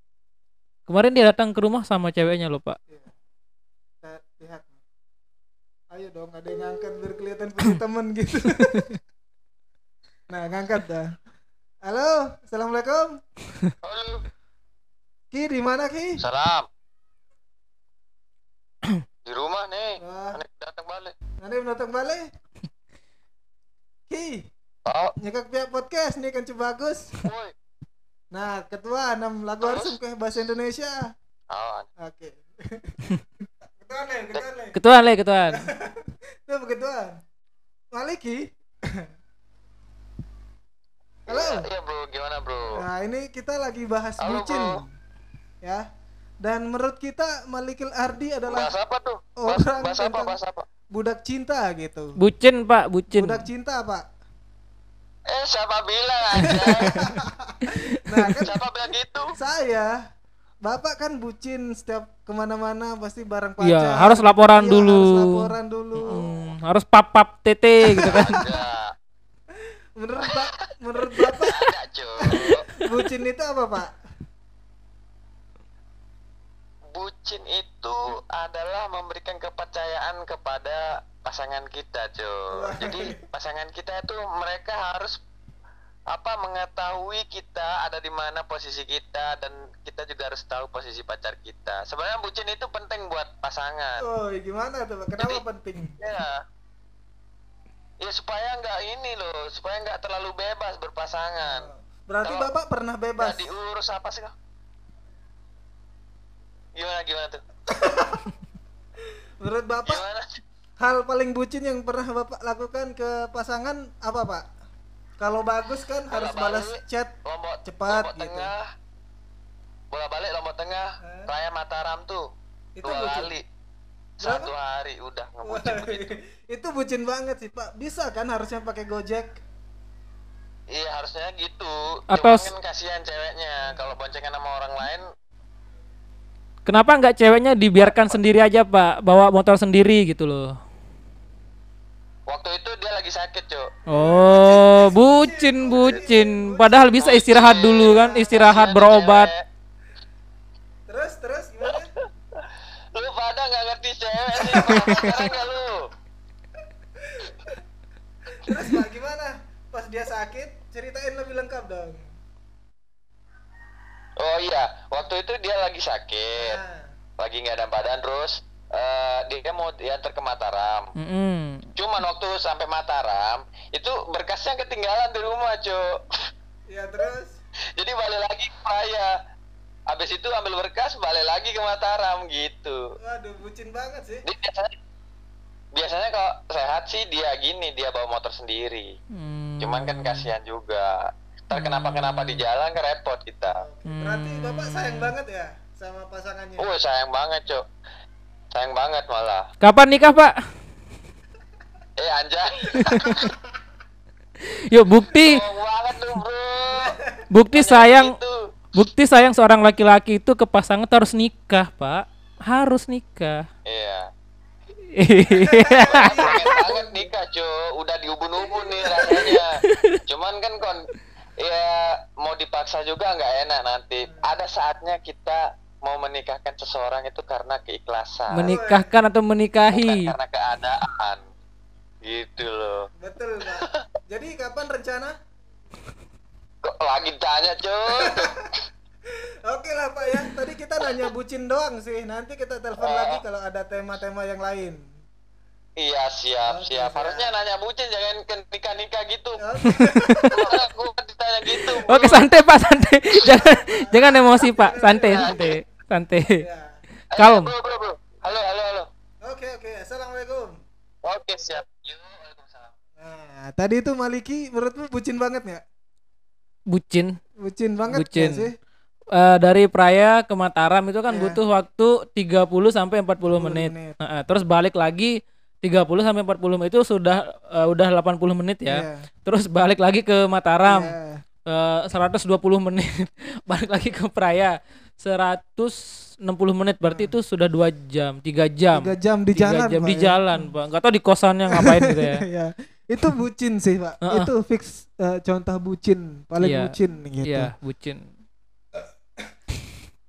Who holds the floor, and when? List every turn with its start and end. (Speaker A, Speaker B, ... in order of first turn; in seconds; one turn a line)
Speaker A: 0.9-2.8
Speaker B: 4.0-4.8
Speaker B: 5.9-8.9
Speaker A: 8.4-8.9
Speaker B: 10.3-11.2
Speaker B: 11.8-13.2
Speaker C: 13.8-14.2
Speaker B: 15.3-16.2
Speaker C: 16.2-16.7
Speaker C: 19.2-21.1
Speaker B: 20.0-20.4
Speaker B: 21.4-22.3
Speaker B: 24.1-24.5
Speaker C: 24.9-25.1
Speaker B: 25.2-27.2
Speaker C: 27.2-27.5
Speaker B: 28.3-31.1
Speaker C: 29.6-29.9
Speaker C: 31.5-31.9
Speaker B: 32.0-34.8
Speaker A: 34.7-35.7
Speaker B: 35.5-37.2
Speaker B: 37.9-39.1
Speaker B: 41.3-41.7
Speaker C: 41.3-42.8
Speaker B: 42.7-44.9
Speaker C: 44.2-44.8
Speaker B: 46.4-48.7
Speaker C: 48.5-50.6
Speaker B: 49.4-50.3
Speaker B: 50.9-52.2
Speaker A: 52.2-53.4
Speaker B: 53.1-54.0
Speaker C: 55.3-57.0
Speaker A: 56.4-58.5
Speaker B: 56.4-58.5
Speaker C: 58.4-59.3
Speaker B: 59.3-59.9
Speaker B: 60.6-66.2
Speaker A: 63.6-68.4
Speaker C: 66.1-66.4
Speaker B: 67.9-68.6
Speaker C: 68.0-68.9
Speaker B: 70.0-71.7
Speaker C: 71.4-72.6
Speaker B: 72.2-73.9
Speaker C: 76.9-85.2
Speaker B: 82.5-83.2
Speaker C: 86.1-94.0
Speaker B: 94.0-96.0
Speaker C: 96.0-96.4
Speaker C: 98.0-101.7
Speaker B: 101.4-103.5
Speaker C: 103.2-104.3
Speaker C: 106.7-107.4
Speaker B: 107.7-108.3
Speaker B: 109.4-110.0
Speaker C: 109.8-110.4
Speaker B: 110.8-114.4
Speaker B: 115.2-118.5
Speaker C: 116.1-118.7
Speaker C: 119.9-122.3
Speaker B: 121.0-121.3
Speaker B: 122.8-123.3
Speaker C: 122.8-123.4
Speaker C: 124.2-126.2
Speaker B: 124.2-124.5
Speaker B: 125.4-129.4
Speaker C: 130.7-135.0
Speaker A: 132.1-132.5
Speaker A: 136.7-140.5
Speaker C: 137.8-138.2
Speaker C: 142.3-143.7
Speaker B: 143.9-146.9
Speaker A: 143.9-149.3
Speaker C: 147.0-149.4
Speaker B: 147.8-148.3
Speaker B: 150.9-151.9
Speaker C: 151.7-155.9
Speaker B: 154.3-155.3
Speaker A: 154.7-155.1
Speaker B: 157.0-157.5
Speaker B: 158.3-162.0
Speaker C: 164.2-166.6
Speaker B: 166.4-166.9
Speaker C: 167.2-170.9
Speaker A: 170.9-171.7
Speaker C: 171.8-176.2
Speaker B: 176.7-177.4
Speaker C: 177.8-179.1
Speaker C: 179.9-182.8
Speaker B: 183.0-184.2
Speaker C: 184.2-184.8
Speaker C: 185.7-188.9
Speaker A: 189.1-190.3
Speaker C: 189.6-193.6
Speaker A: 191.5-192.4
Speaker B: 193.5-196.7
Speaker A: 193.8-195.1
Speaker C: 196.6-197.6
Speaker C: 198.5-199.5
Speaker A: 199.6-200.3
Speaker C: 202.0-203.3
Speaker A: 202.7-203.3
Speaker A: 204.4-205.4
Speaker C: 205.1-207.0
Speaker B: 206.7-207.2
Speaker A: 207.3-208.1
Speaker C: 207.5-208.4
Speaker A: 208.7-213.4
Speaker C: 213.7-214.1
Speaker A: 214.8-216.4
Speaker B: 215.3-217.1
Speaker C: 215.8-228.5
Speaker B: 218.5-219.0
Speaker A: 218.9-220.0
Speaker A: 228.3-230.1
Speaker B: 228.4-228.9
Speaker C: 229.7-231.2
Speaker C: 232.0-232.9
Speaker B: 233.0-235.1
Speaker C: 233.5-233.8
Speaker C: 236.6-238.4
Speaker B: 237.9-238.5
Speaker B: 239.4-244.8
Speaker C: 242.8-243.2
Speaker C: 245.8-249.4
Speaker B: 246.5-247.3
Speaker B: 249.4-250.4
Speaker A: 249.7-250.4
Speaker C: 250.3-252.0
Speaker A: 251.7-256.4
Speaker B: 253.4-255.4
Speaker C: 255.1-255.5
Speaker B: 256.4-256.8
Speaker A: 257.1-257.5
Speaker C: 257.1-258.9
Speaker B: 259.2-260.6
Speaker C: 261.0-262.7
Speaker B: 263.0-265.6
Speaker A: 266.7-267.1
Speaker B: 267.4-268.5
Speaker A: 267.9-268.5
Speaker A: 269.1-280.9
Speaker B: 271.1-271.4
Speaker B: 273.2-274.0
Speaker B: 278.7-279.1
Speaker B: 280.6-281.2
Speaker A: 281.4-292.2
Speaker B: 286.8-287.1
Speaker B: 288.7-290.5
Speaker B: 291.5-297.5
Speaker A: 294.0-294.3
Speaker A: 296.4-298.1